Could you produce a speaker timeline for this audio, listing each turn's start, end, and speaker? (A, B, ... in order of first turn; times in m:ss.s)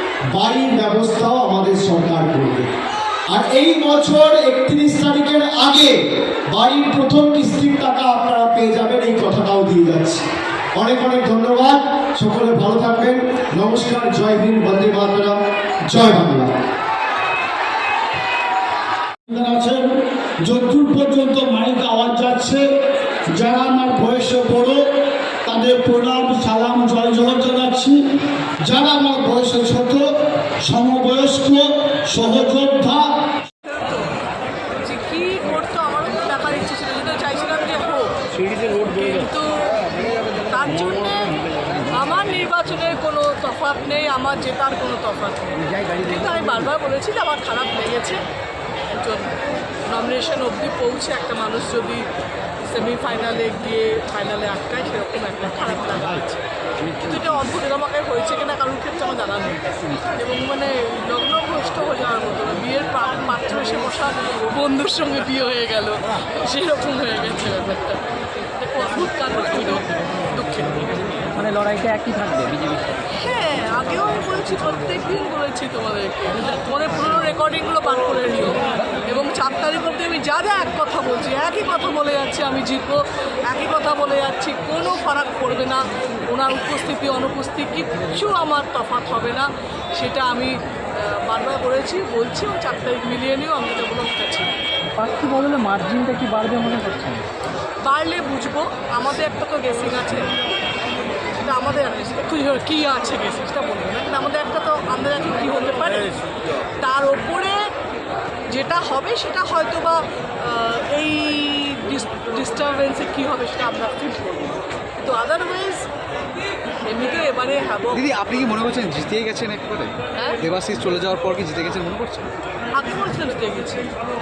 0:00.3-0:02.7 A
0:03.3-0:10.2 A
0:10.7-0:16.5 A
0:19.3-0:22.7 B
0:23.3-0:24.8 B
0:25.4-0:28.0 B
0:28.6-0:30.1 B
0:30.6-0:33.2 B
0:33.6-0:34.1 C
0:34.8-0:39.7 C
0:40.3-0:48.2 C
0:48.9-0:52.0 C
0:52.6-1:10.9 C
1:11.4-1:12.8 D
1:11.4-1:12.1 E
1:13.1-1:34.5 C
1:35.0-1:37.2 E
1:37.8-1:40.3 C
1:41.4-1:46.2 C
1:46.8-1:47.7 C
1:48.5-1:55.9 C
1:56.8-1:58.0 C
1:57.9-2:02.3 D
2:00.1-2:00.4 C
2:02.7-2:03.8 C